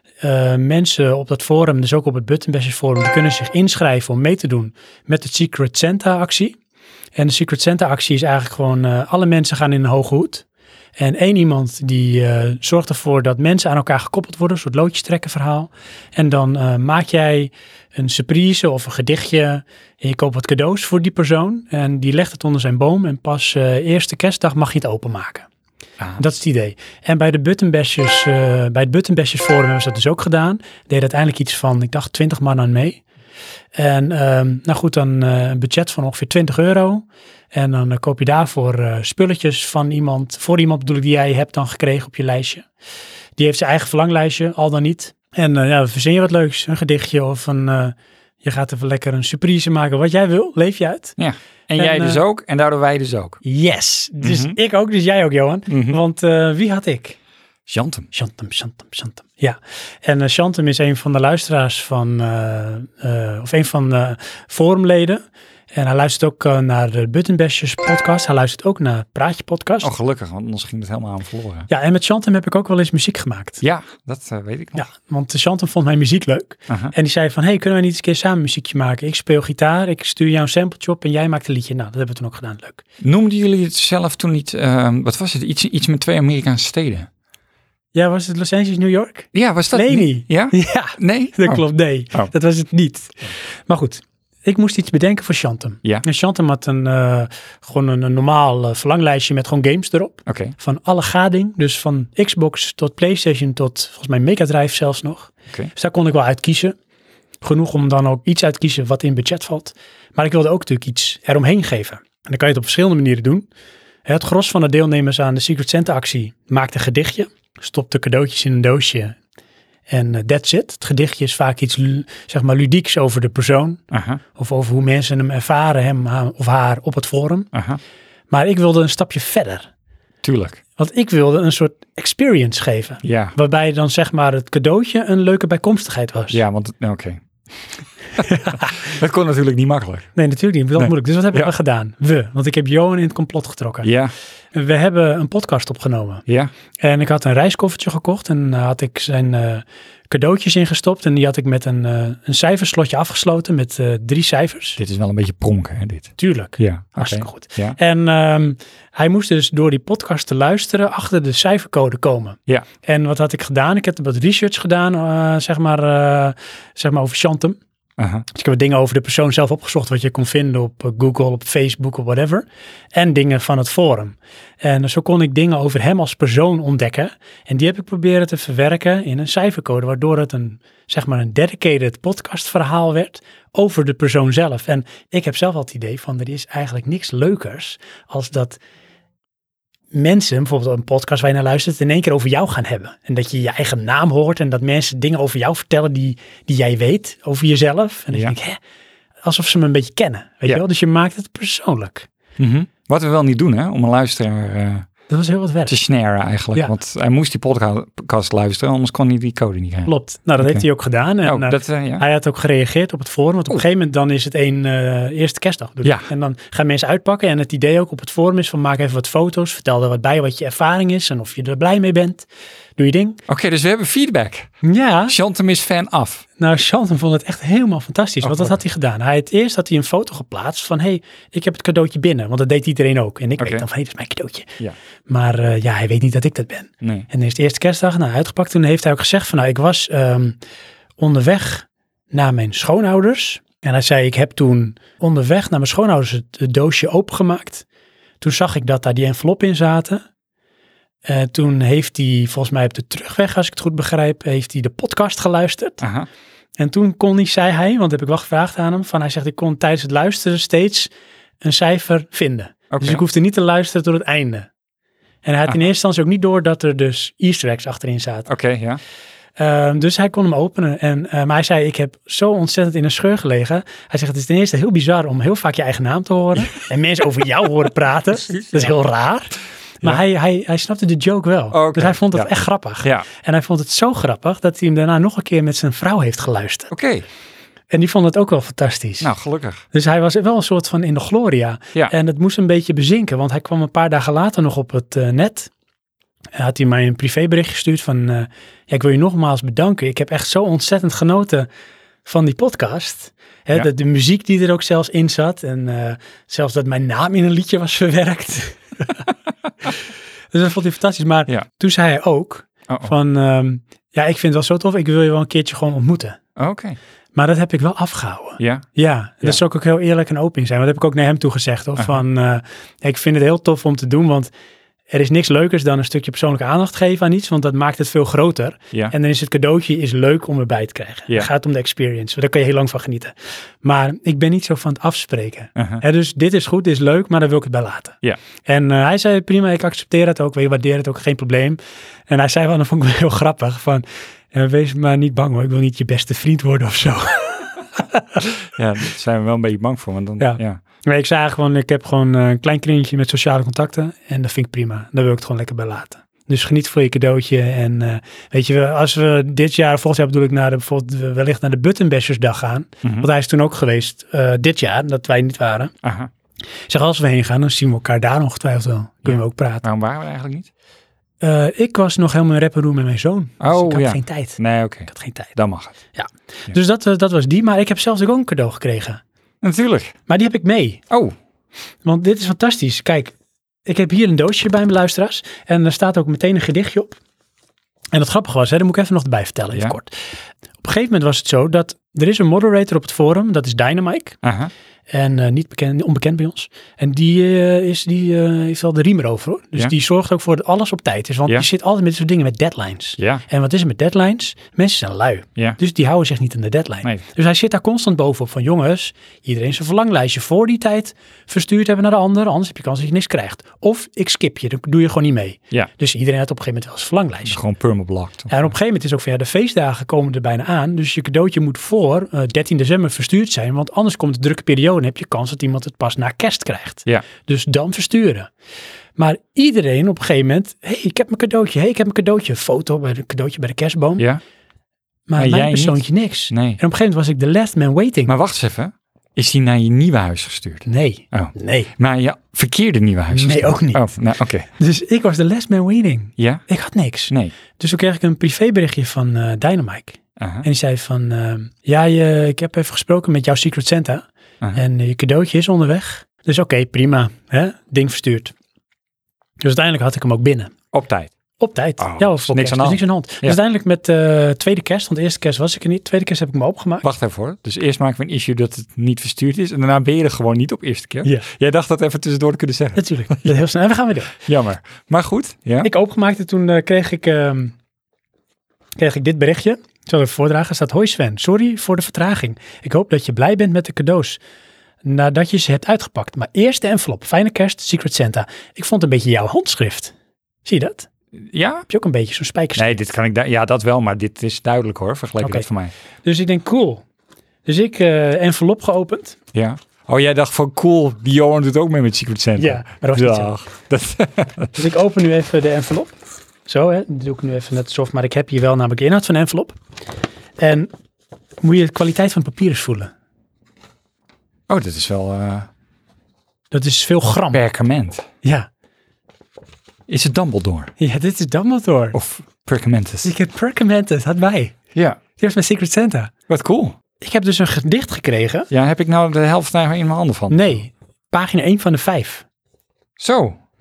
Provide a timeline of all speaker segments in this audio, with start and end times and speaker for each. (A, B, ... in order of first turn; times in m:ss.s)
0:00.2-0:06.6 A
0:07.2-0:10.4 A
0:11.0-0:25.5 A
0:26.2-0:33.0 A
0:33.8-0:42.7 A
0:43.4-0:51.2 A
0:51.2-0:53.4 B
0:51.8-0:52.2 A
0:53.4-0:57.2 A
0:54.2-0:54.6 B
0:55.7-0:56.0 B
0:57.7-0:58.1 B
0:58.1-1:05.2 A
1:05.7-1:09.9 A
1:09.8-1:11.7 B
1:11.7-1:13.6 A
1:13.6-1:14.8 B
1:14.8-1:22.8 A
1:16.7-1:16.9 B
1:23.0-1:27.1 B
1:27.9-1:46.8 A
1:29.3-1:32.3 B
1:40.3-1:40.6 B
1:47.4-1:53.5 A
1:54.1-1:59.2 A
1:59.9-2:03.8 A
2:03.9-2:04.2 B
2:04.4-2:07.5 A
2:07.5-2:07.8 B
2:08.3-2:09.7 A
2:10.2-2:10.6 B
2:10.8-2:16.4 A
2:13.0-2:13.4 B
2:16.3-2:17.2 B
2:18.1-2:20.1 B
2:18.2-2:18.7 A
2:20.2-2:23.9 A
2:20.8-2:21.5 B
2:23.8-2:24.1 B
2:24.5-2:26.2 A
2:26.8-2:34.8 A
2:34.8-2:37.8 B
2:36.2-2:47.6 A
2:48.0-2:48.2 B
2:48.3-3:08.6 A
3:09.9-3:18.6 A
3:19.2-3:22.1 A
3:22.4-3:24.9 B
3:25.1-3:25.8 A
3:25.7-3:30.6 B
3:29.9-3:43.2 A
3:31.2-3:32.0 B
3:43.3-3:44.5 B
3:44.6-3:45.2 A
3:45.1-3:46.2 B
3:46.4-4:00.4 A
3:48.2-3:48.6 B
3:53.4-3:53.6 B
3:56.8-3:57.1 B
4:01.0-4:07.6 A
4:08.2-4:10.0 A
4:11.0-4:15.9 A
4:15.8-4:16.1 B
4:16.6-4:20.9 A
4:21.4-4:24.5 A
4:22.7-4:23.0 B
4:25.2-4:28.3 A
4:28.3-4:28.8 B
4:29.4-4:46.7 A
4:38.3-4:38.7 B
4:41.5-4:42.3 B
4:46.7-4:47.0 B
4:47.7-4:49.1 A
4:49.0-4:49.6 B
4:49.7-4:55.5 A
4:56.4-5:01.5 A
5:02.0-5:09.1 A
5:10.3-5:16.2 A
5:16.4-5:16.8 B
5:17.2-5:24.3 A
5:18.4-5:18.7 B
5:24.9-5:41.6 A
5:35.6-5:35.8 B
5:42.1-5:48.0 A
5:48.4-5:50.6 B
5:50.2-6:05.7 A
6:02.8-6:03.1 B
6:05.8-6:06.1 B
6:06.7-6:09.6 A
6:09.0-6:10.5 B
6:11.2-6:15.3 A
6:13.4-6:15.7 B
6:16.0-6:19.0 A
6:19.4-6:20.0 B
6:20.1-6:20.8 A
6:20.9-6:21.2 B
6:21.8-6:23.2 A
6:23.7-6:27.0 A
6:27.9-6:30.0 A
6:30.6-6:34.2 A
6:34.2-6:34.5 B
6:34.9-6:57.4 A
6:43.0-6:43.2 B
6:57.3-6:58.3 B
6:58.3-7:08.3 A
7:09.0-7:14.0 A
7:15.1-7:18.1 A
7:15.2-7:16.6 B
7:18.1-7:24.5 B
7:20.7-7:21.7 A
7:23.1-7:23.8 A
7:24.6-7:38.3 A
7:26.2-7:26.4 B
7:30.2-7:30.5 B
7:39.4-7:40.5 A
7:40.7-7:41.1 B
7:41.4-7:46.9 A
7:41.8-7:43.4 B
7:46.8-7:53.3 B
7:52.8-7:54.2 A
7:54.2-7:55.7 B
7:55.6-7:57.6 A
7:58.8-8:04.2 A
8:04.8-8:09.9 A
8:10.4-8:10.9 A
8:11.2-8:11.7 B
8:11.7-8:12.8 A
8:12.6-8:15.7 B
8:15.2-8:15.5 A
8:16.0-8:16.8 A
8:17.4-8:19.2 A
8:19.3-8:24.6 B
8:22.4-8:23.3 A
8:24.6-8:25.9 A
8:26.5-8:29.6 A
8:30.4-8:30.7 A
8:31.4-8:32.9 A
8:34.5-8:35.5 B
8:36.5-8:37.4 A
8:37.3-8:38.1 B
8:38.2-8:38.5 A
8:39.9-8:40.7 B
8:40.8-8:42.0 A
8:41.9-8:43.1 B
8:43.0-8:44.6 A
8:44.7-8:45.0 B
8:45.2-8:46.1 A
8:46.3-8:46.8 B
8:47.0-8:48.5 A
8:48.5-8:50.6 B
8:50.3-8:52.2 A
8:53.0-8:53.4 B